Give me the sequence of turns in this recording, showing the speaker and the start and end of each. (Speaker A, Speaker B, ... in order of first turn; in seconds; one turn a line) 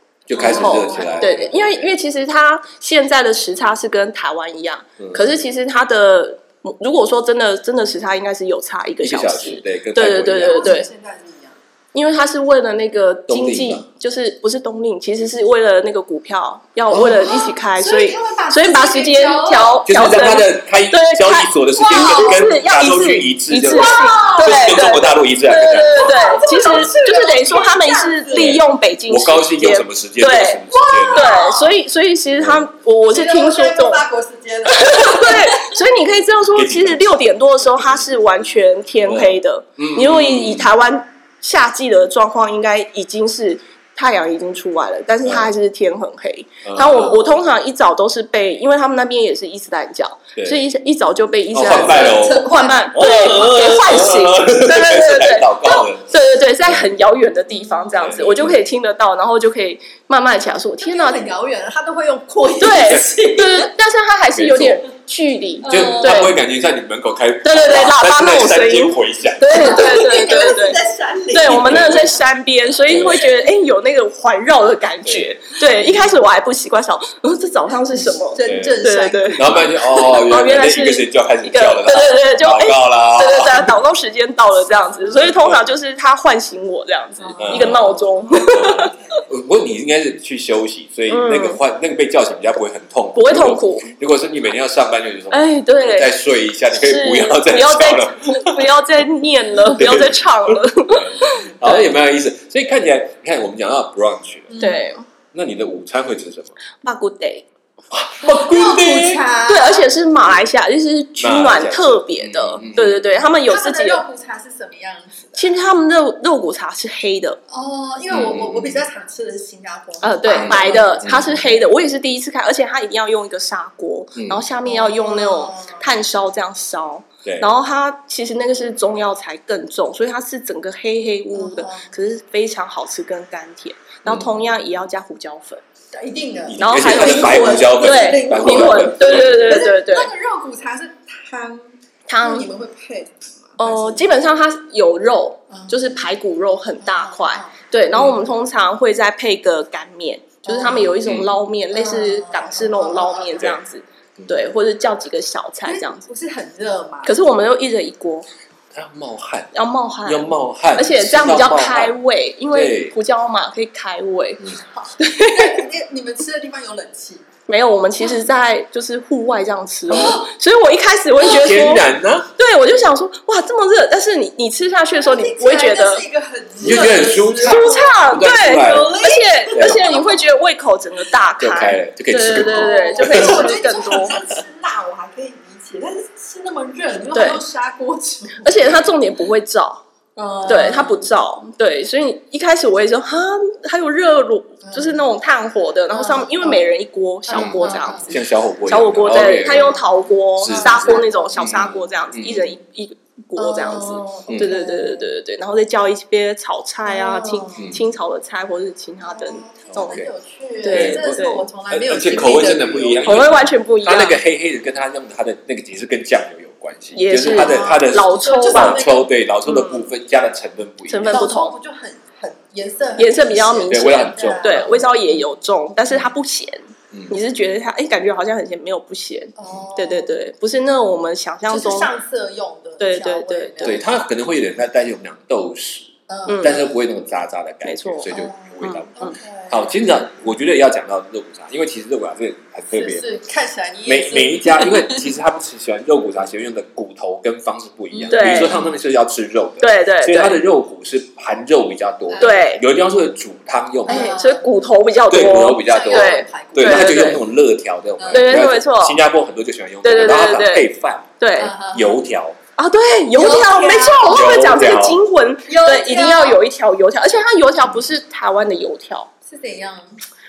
Speaker A: 0.3-1.9
Speaker B: 0.3-10.9
Speaker C: 0.4-1.6
Speaker A: 5.0-5.3
Speaker A: 9.0-10.8
Speaker C: 10.4-11.6
Speaker B: 11.9-30.6
Speaker A: 13.3-13.9
Speaker A: 16.9-17.4
Speaker C: 17.0-19.8
Speaker A: 19.9-26.9
Speaker C: 21.8-22.4
Speaker C: 23.7-24.9
Speaker C: 25.9-28.6
Speaker A: 28.3-31.3
Speaker C: 30.7-31.7
Speaker B: 31.1-34.0
Speaker A: 32.4-32.7
Speaker C: 33.1-35.8
Speaker B: 34.7-61.2
Speaker A: 36.5-37.4
Speaker A: 39.0-40.7
Speaker A: 46.6-47.4
Speaker A: 51.5-56.1
Speaker C: 51.6-52.9
Speaker A: 58.0-58.6
Speaker C: 60.8-63.7
Speaker B: 62.6-66.3
Speaker A: 64.3-64.8
Speaker C: 65.6-66.3
Speaker A: 65.7-69.9
Speaker B: 67.4-89.2
Speaker C: 69.5-72.1
Speaker A: 71.4-72.1
Speaker A: 72.9-73.2
Speaker A: 75.0-75.3
Speaker C: 77.9-79.7
Speaker A: 78.5-78.8
Speaker A: 79.3-83.8
Speaker A: 85.1-85.6
Speaker A: 87.4-98.7
Speaker B: 91.1-91.6
Speaker B: 93.2-93.9
Speaker B: 95.3-96.1
Speaker B: 96.7-101.9
Speaker A: 99.7-104.5
Speaker C: 104.5-104.9
Speaker B: 104.6-105.0
Speaker A: 105.3-106.5
Speaker B: 106.8-107.5
Speaker A: 107.9-109.2
Speaker C: 108.2-109.9
Speaker B: 109.5-114.0
Speaker A: 111.2-113.0
Speaker C: 113.3-115.8
Speaker B: 115.4-117.4
Speaker C: 117.5-121.5
Speaker A: 118.1-118.8
Speaker B: 120.0-135.6
Speaker A: 120.3-121.4
Speaker A: 124.2-124.4
Speaker C: 124.7-125.9
Speaker C: 131.3-131.9
Speaker A: 134.1-134.3
Speaker C: 135.9-144.0
Speaker A: 136.5-139.7
Speaker B: 136.6-140.1
Speaker B: 142.1-142.5
Speaker B: 143.6-156.0
Speaker C: 146.8-147.6
Speaker A: 147.9-148.2
Speaker C: 150.4-151.0
Speaker A: 151.0-151.3
Speaker C: 151.7-153.6
Speaker C: 155.7-157.2
Speaker B: 157.0-158.3
Speaker A: 158.7-159.5
Speaker B: 159.5-164.4
Speaker A: 160.1-162.0
Speaker A: 162.5-162.9
Speaker C: 164.6-167.3
Speaker B: 165.0-165.6
Speaker B: 167.5-176.0
Speaker C: 169.9-170.3
Speaker A: 171.2-172.3
Speaker C: 175.0-180.2
Speaker A: 176.6-178.9
Speaker B: 177.4-184.2
Speaker A: 179.5-179.9
Speaker A: 181.4-183.6
Speaker C: 182.2-188.8
Speaker B: 187.1-187.4
Speaker B: 188.4-189.8
Speaker C: 190.2-191.0
Speaker B: 190.5-210.0
Speaker C: 194.6-195.0
Speaker C: 195.9-196.7
Speaker C: 197.3-198.1
Speaker A: 197.3-199.8
Speaker C: 199.3-199.8
Speaker A: 200.4-202.5
Speaker C: 200.4-201.7
Speaker C: 203.4-205.1
Speaker C: 206.8-207.8
Speaker C: 209.0-213.4
Speaker A: 209.7-210.1
Speaker B: 210.6-211.4
Speaker A: 210.7-221.2
Speaker B: 213.1-214.2
Speaker B: 216.9-218.9
Speaker C: 217.2-219.1
Speaker B: 219.5-219.8
Speaker B: 220.9-221.6
Speaker C: 221.0-225.0
Speaker B: 223.0-231.9
Speaker A: 223.7-224.8
Speaker C: 229.4-230.1
Speaker C: 231.5-233.9
Speaker B: 232.8-233.8
Speaker A: 233.6-238.9
Speaker C: 236.1-236.6
Speaker B: 236.3-236.6
Speaker B: 237.6-239.2
Speaker C: 238.1-239.7
Speaker A: 239.5-243.1
Speaker C: 242.8-245.1
Speaker A: 243.9-254.1
Speaker C: 247.9-248.4
Speaker B: 248.1-248.6
Speaker B: 249.6-250.4
Speaker C: 252.1-252.5
Speaker B: 252.2-252.6
Speaker C: 253.9-254.5
Speaker B: 253.9-257.2
Speaker A: 255.1-261.1
Speaker C: 255.6-257.1
Speaker C: 258.0-258.4
Speaker B: 258.1-259.0
Speaker B: 259.8-260.7
Speaker B: 261.2-261.5
Speaker C: 261.4-261.9
Speaker A: 261.7-262.4
Speaker B: 262.6-269.1
Speaker C: 263.1-264.2
Speaker A: 264.1-265.0
Speaker C: 265.5-266.4
Speaker C: 269.3-270.0